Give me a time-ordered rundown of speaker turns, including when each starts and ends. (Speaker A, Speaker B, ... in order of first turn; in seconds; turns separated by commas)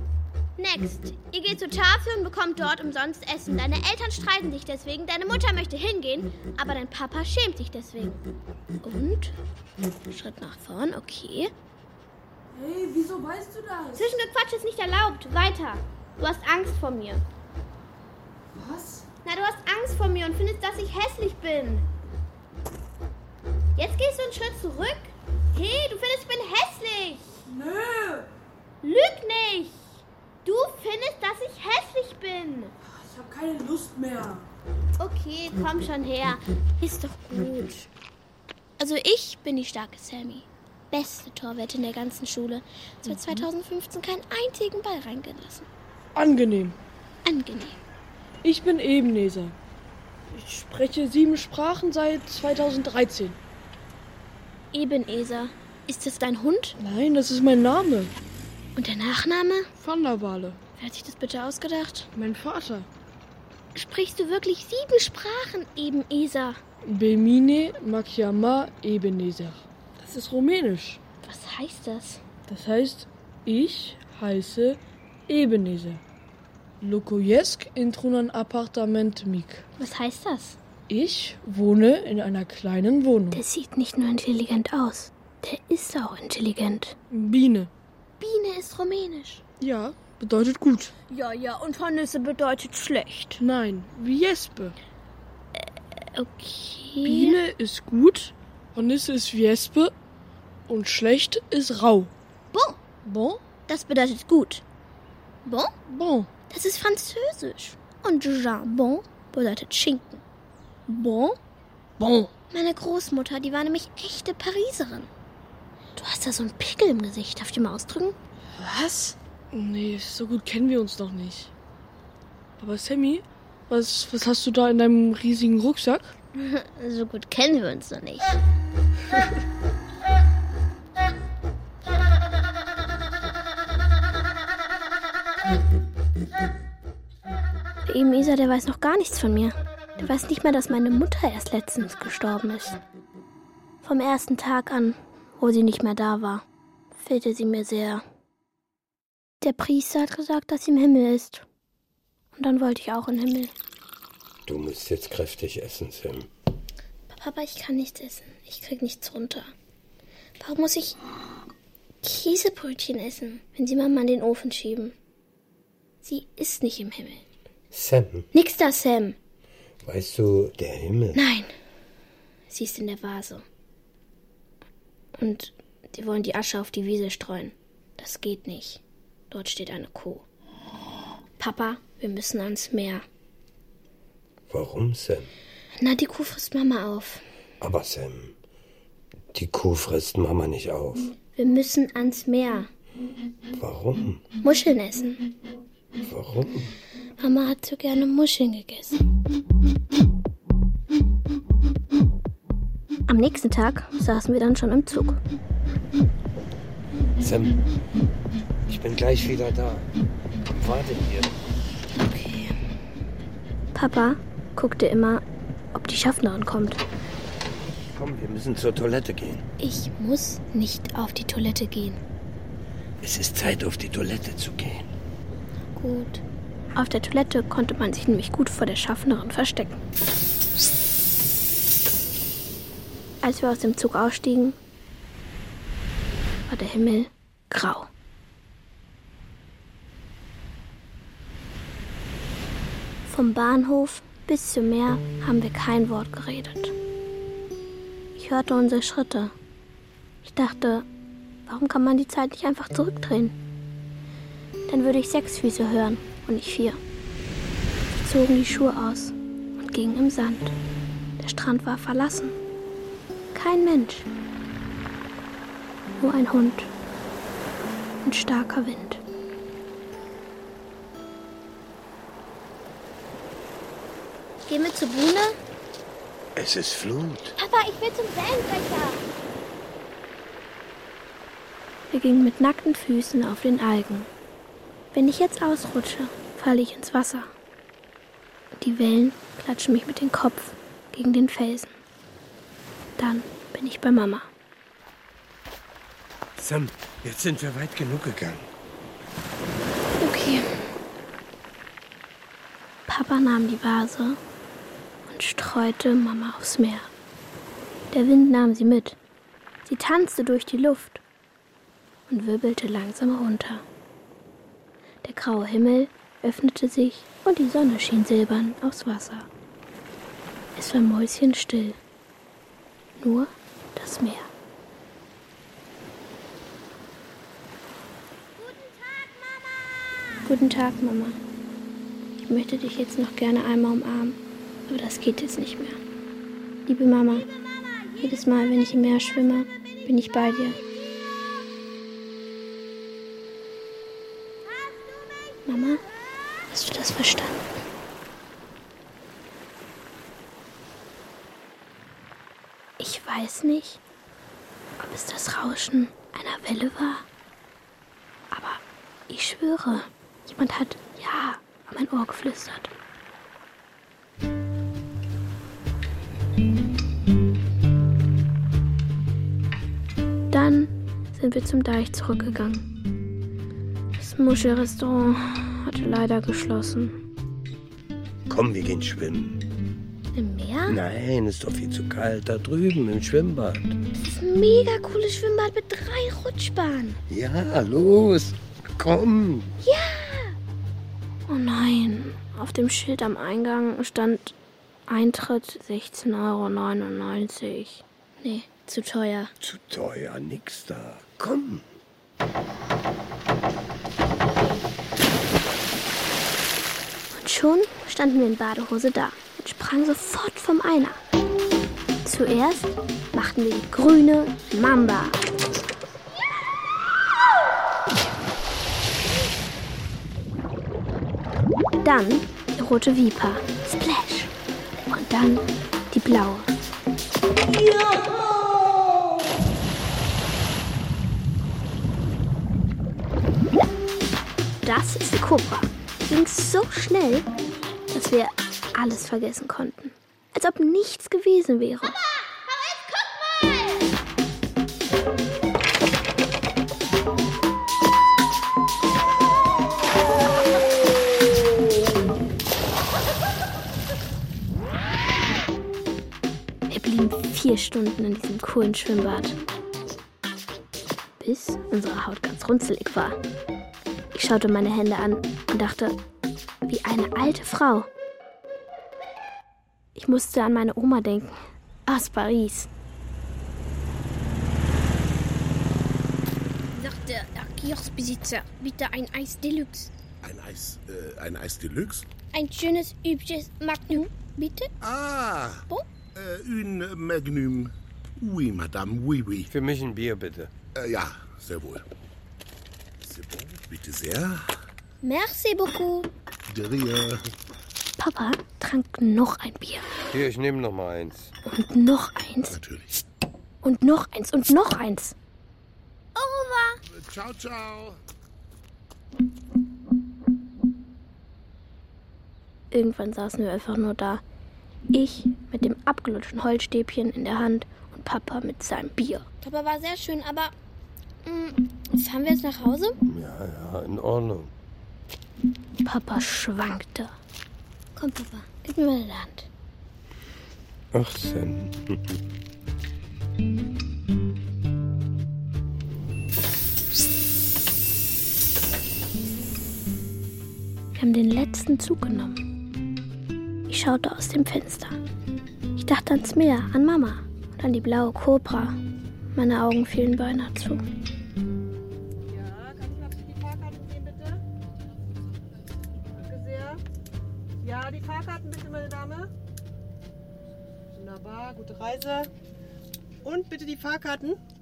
Speaker A: 0.6-8.2, Speaker A: 8.8-9.3, Speaker A: 10.1-11.5, Speaker B: 12.5-14.2, Speaker A: 13.9-17.2, Speaker B: 18.6-19.0, Speaker A: 19.2-21.9, Speaker A: 23.8-27.4, Speaker B: 27.5-28.3, Speaker A: 28.8-32.7, Speaker B: 33.0-34.5, Speaker A: 35.0-37.9, Speaker A: 38.8-45.7, Speaker B: 46.1-46.8, Speaker A: 47.2-47.8, Speaker B: 48.4-49.5, Speaker B: 50.3-53.4, Speaker A: 54.7-56.8, Speaker B: 56.8-58.1, Speaker A: 58.8-59.7, Speaker B: 59.8-60.6, Speaker A: 60.8-62.1, Speaker B: 62.1-62.9, Speaker A: 63.7-66.6, Speaker B: 66.8-71.0, Speaker A: 71.2-72.2, Speaker B: 72.5-76.0, Speaker B: 76.8-79.6, Speaker A: 79.8-80.6, Speaker B: 80.9-83.4, Speaker A: 83.3-87.0, Speaker B: 87.1-87.7, Speaker A: 88.2-89.4, Speaker B: 89.6-90.9, Speaker A: 91.1-93.4, Speaker B: 93.4-94.8, Speaker A: 95.6-97.4, Speaker B: 97.0-99.9, Speaker B: 100.7-102.1, Speaker A: 102.5-102.8, Speaker B: 103.0-103.4, Speaker A: 103.7-104.6, Speaker A: 105.4-105.7, Speaker B: 105.8-106.3, Speaker A: 106.5-110.2, Speaker A: 110.9-111.4, Speaker B: 112.0-112.3, Speaker A: 112.5-115.1, Speaker A: 116.0-118.2, Speaker B: 118.5-121.5, Speaker B: 122.6-126.1, Speaker A: 126.3-128.4, Speaker A: 137.8-142.8, Speaker A: 143.8-146.4, Speaker A: 146.9-148.0, Speaker A: 149.4-151.4, Speaker A: 152.3-153.5, Speaker C: 154.4-156.3, Speaker A: 157.1-159.5, Speaker A: 160.4-161.0, Speaker A: 162.0-164.9, Speaker A: 166.0-167.2, Speaker C: 167.7-168.3, Speaker A: 168.3-169.2, Speaker C: 169.8-171.2, Speaker A: 171.1-171.5, Speaker A: 172.5-173.4, Speaker A: 175.2-180.2, Speaker A: 181.4-183.0, Speaker C: 184.5-185.3, Speaker A: 185.8-187.2, Speaker C: 187.6-188.3, Speaker C: 189.3-191.1, Speaker A: 191.3-192.7, Speaker C: 193.5-194.2, Speaker A: 194.4-195.2, Speaker C: 196.0-196.7, Speaker A: 197.2-199.0, Speaker A: 203.1-205.2, Speaker C: 207.2-207.7, Speaker C: 208.7-209.9, Speaker C: 210.5-211.3, Speaker A: 212.0-212.6, Speaker A: 213.7-216.8, Speaker C: 217.8-219.4, Speaker A: 219.6-222.0, Speaker C: 223.0-224.9, Speaker A: 225.8-226.2, Speaker A: 226.7-229.8, Speaker A: 233.2-234.6, Speaker A: 236.5-237.9, Speaker A: 243.1-246.7, Speaker A: 248.2-249.3, Speaker A: 250.2-250.8, Speaker A: 251.5-253.3, Speaker A: 254.7-256.8, Speaker A: 258.0-260.5, Speaker A: 261.2-262.4, Speaker A: 263.3-264.1, Speaker A: 266.0-266.7, Speaker A: 268.0-269.0, Speaker A: 274.5-275.4, Speaker C: 276.4-277.3, Speaker A: 277.4-279.0, Speaker A: 281.9-284.1, Speaker A: 284.9-287.3, Speaker A: 288.6-291.7, Speaker A: 293.0-294.3, Speaker C: 296.4-298.5, Speaker A: 300.0-300.4, Speaker A: 302.9-304.2, Speaker A: 305.1-306.9, Speaker A: 307.9-309.0, Speaker A: 309.6-311.0, Speaker A: 312.1-313.6, Speaker A: 315.0-319.3, Speaker A: 320.5-321.8, Speaker A: 323.0-324.3, Speaker A: 330.2-331.2, Speaker A: 332.2-335.8, Speaker A: 336.7-337.3, Speaker A: 338.0-340.6, Speaker A: 345.4-345.8, Speaker A: 346.5-347.5, Speaker A: 352.8-353.8, Speaker A: 354.8-357.0, Speaker A: 358.3-362.7, Speaker A: 370.3-372.6, Speaker A: 374.0-376.9, Speaker C: 378.3-379.4, Speaker A: 380.1-380.8, Speaker C: 380.7-383.7, Speaker A: 384.0-387.0, Speaker C: 387.1-389.6, Speaker A: 389.6-390.4, Speaker A: 391.3-394.3, Speaker A: 394.9-399.3, Speaker C: 399.4-401.7, Speaker A: 407.1-411.0, Speaker A: 412.0-415.2, Speaker A: 421.8-424.3, Speaker A: 424.9-426.5, Speaker A: 434.6-437.3, Speaker A: 437.9-442.0, Speaker A: 456.7-459.3, Speaker A: 461.2-463.2, Speaker A: 464.1-465.9, Speaker A: 466.6-467.9, Speaker A: 469.9-472.7, Speaker A: 476.7-479.9, Speaker D: 480.2-482.1, Speaker A: 482.3-484.7, Speaker D: 484.8-485.6, Speaker D: 486.1-489.5, Speaker C: 489.5-490.5, Speaker D: 490.8-491.8, Speaker D: 493.0-494.6, Speaker A: 495.0-496.1, Speaker D: 496.5-497.3, Speaker A: 498.0-499.9, Speaker C: 500.1-501.3, Speaker A: 501.4-502.5, Speaker D: 502.5-502.9, Speaker A: 503.6-505.1, Speaker A: 506.1-506.8, Speaker D: 506.9-508.0, Speaker A: 512.7-514.2, Speaker A: 514.9-520.5, Speaker A: 521.2-523.0, Speaker C: 523.0-524.5, Speaker A: 525.8-527.1, Speaker A: 528.0-529.5, Speaker C: 530.9-532.1, Speaker A: 541.0-542.4, Speaker A: 543.7-545.0, Speaker A: 545.8-548.8, Speaker A: 549.3-550.8, Speaker E: 552.3-554.4, Speaker E: 556.1-556.8, Speaker E: 557.6-559.3, Speaker E: 561.0-562.3, Speaker E: 563.2-564.4